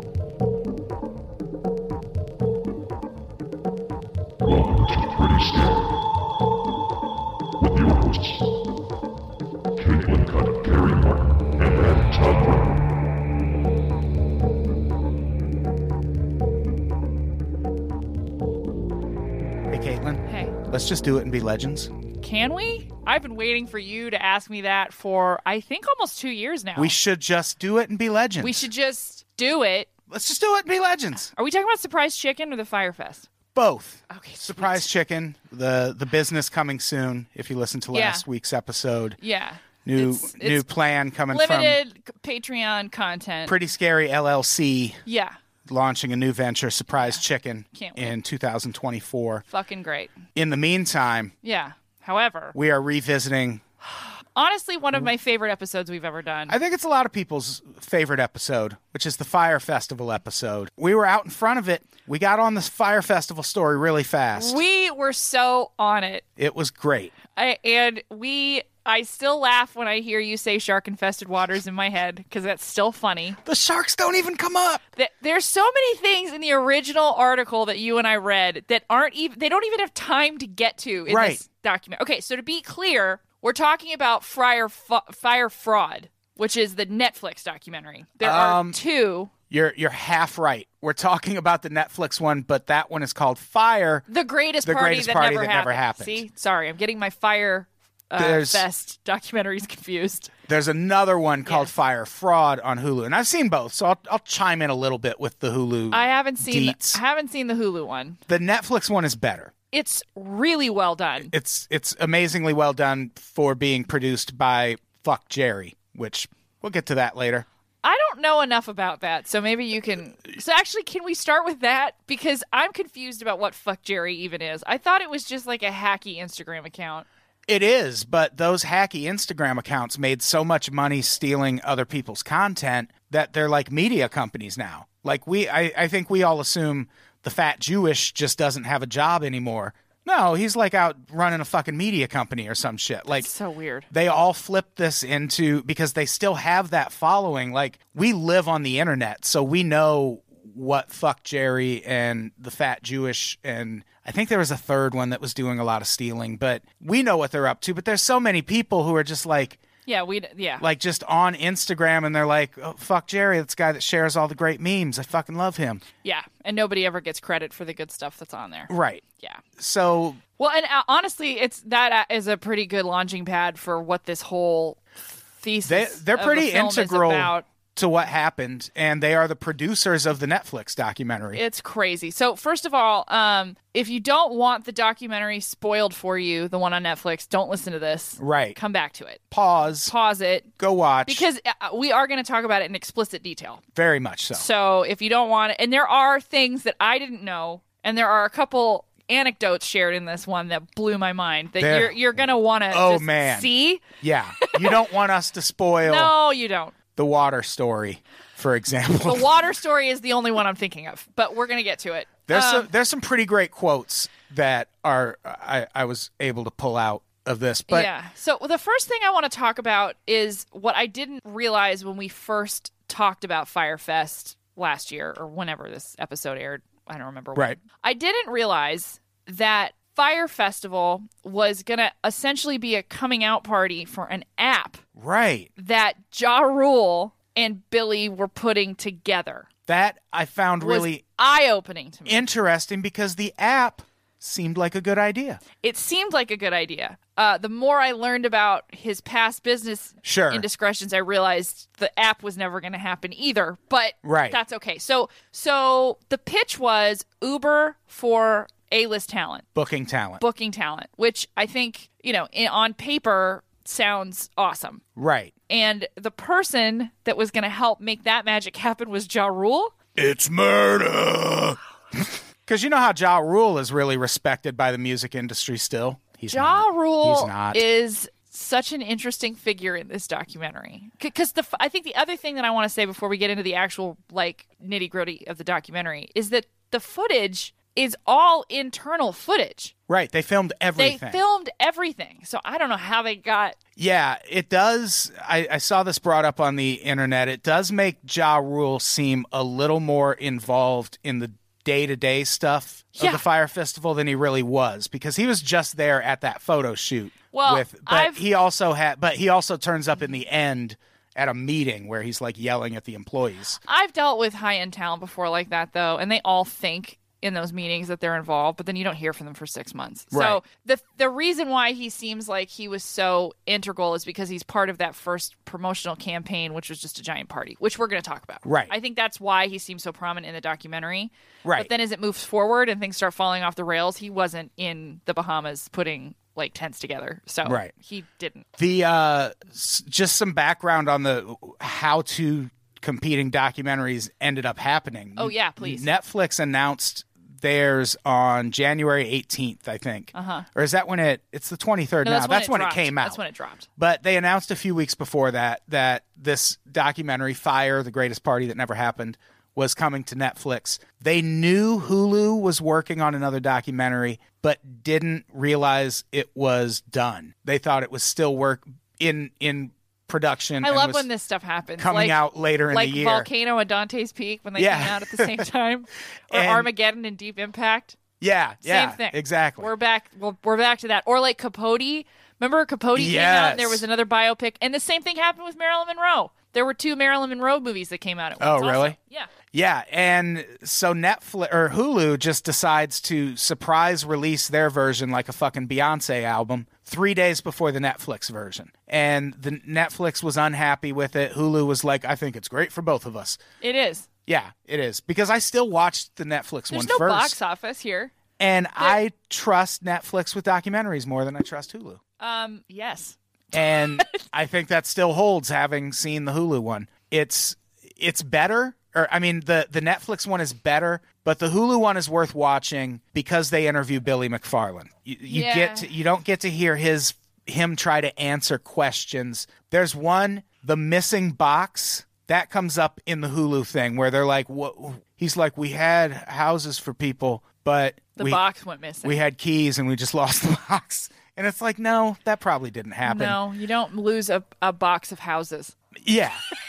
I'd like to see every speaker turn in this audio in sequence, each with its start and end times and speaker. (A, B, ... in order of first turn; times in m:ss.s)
0:04.4-0:06.0 A
0:07.6-0:08.5 A
0:09.8-0:12.9 A
0:19.7-0:21.9 B
0:20.2-0:20.5 C
0:22.2-0:26.9 C
0:26.8-0:28.7 B
0:28.4-0:29.9 C
0:30.1-0:31.3 B
0:31.3-0:33.2 C
0:33.5-0:39.2 B
0:34.1-0:34.9 C
0:37.9-0:38.2 C
0:39.2-0:40.6 C
0:39.8-0:41.8 B
0:41.3-0:43.6 C
0:43.4-0:45.0 B
0:45.0-0:45.3 C
0:45.6-0:49.4 B
0:47.7-0:48.2 C
0:49.5-0:50.1 C
0:50.4-0:51.3 B
0:51.4-0:52.5 C
0:52.5-0:53.6 B
0:54.4-0:56.6 C
0:56.5-1:04.6 B
1:04.4-1:06.2 C
1:06.4-1:07.1 B
1:07.3-1:13.4 C
1:13.4-1:14.8 B
1:14.9-1:29.3 C
1:21.1-1:21.4 B
1:28.2-1:28.8 B
1:29.5-1:34.0 B
1:34.1-1:40.3 C
1:34.6-1:36.2 B
1:38.2-1:38.6 B
1:40.5-1:47.0 B
1:41.4-1:41.7 C
1:45.9-1:48.2 C
1:48.3-1:49.5 B
1:49.7-1:51.3 C
1:51.3-1:57.4 B
1:57.8-2:07.0 C
2:07.5-2:23.3 B
2:23.2-2:23.9 C
2:23.9-2:39.6 B
2:39.8-2:40.6 C
2:40.6-2:45.8 B
2:46.0-2:49.4 C
2:48.7-2:49.0 B
2:49.6-2:50.2 B
2:50.4-2:54.8 C
2:55.4-2:57.4 C
2:55.6-3:01.4 B
3:01.3-3:09.2 C
3:08.2-3:08.6 B
3:09.3-3:09.9 B
3:09.8-3:10.5 C
3:10.6-3:11.3 B
3:11.0-3:13.6 C
3:13.7-3:14.4 B
3:14.3-3:23.8 C
3:21.6-3:26.1 B
3:24.4-3:24.9 C
3:25.8-3:26.8 C
3:27.0-3:29.3 B
3:29.0-3:32.7 C
3:32.3-3:37.9 B
3:37.7-3:54.8 C
3:55.0-3:55.5 B
3:55.6-3:59.5 C
3:59.7-4:01.0 B
4:00.6-4:02.3 C
4:02.0-4:05.4 B
4:05.6-4:19.4 C
4:10.0-4:10.4 B
4:14.0-4:14.4 B
4:19.6-4:20.2 B
4:20.2-4:24.8 C
4:25.0-4:25.3 B
4:25.5-4:29.7 C
4:30.0-4:37.6 B
4:36.3-4:49.7 C
4:49.9-4:51.2 B
4:50.8-4:53.6 C
4:53.8-5:13.6 B
5:03.0-5:03.2 C
5:07.3-5:08.2 C
5:13.6-5:38.4 C
5:20.1-5:20.4 B
5:28.4-5:28.7 B
5:31.4-5:31.7 B
5:37.4-5:37.7 B
5:38.6-5:53.2 B
5:45.2-5:45.9 C
5:50.1-5:50.4 C
5:52.0-5:53.7 C
5:53.8-6:11.1 B
6:10.6-6:18.0 C
6:11.8-6:13.3 B
6:14.6-6:15.4 B
6:16.3-6:16.7 B
6:18.2-6:19.7 B
6:18.6-6:29.3 C
6:22.9-6:23.8 B
6:28.4-6:29.0 B
6:29.5-6:43.4 B
6:43.6-6:44.1 C
6:44.3-6:47.4 B
6:46.7-6:48.1 C
6:48.4-6:52.0 B
6:52.2-6:53.2 C
6:53.5-7:18.4 B
6:53.8-6:54.2 C
7:05.3-7:05.9 C
7:18.2-7:19.2 C
7:19.0-7:23.4 B
7:23.0-7:25.7 C
7:26.0-7:26.4 B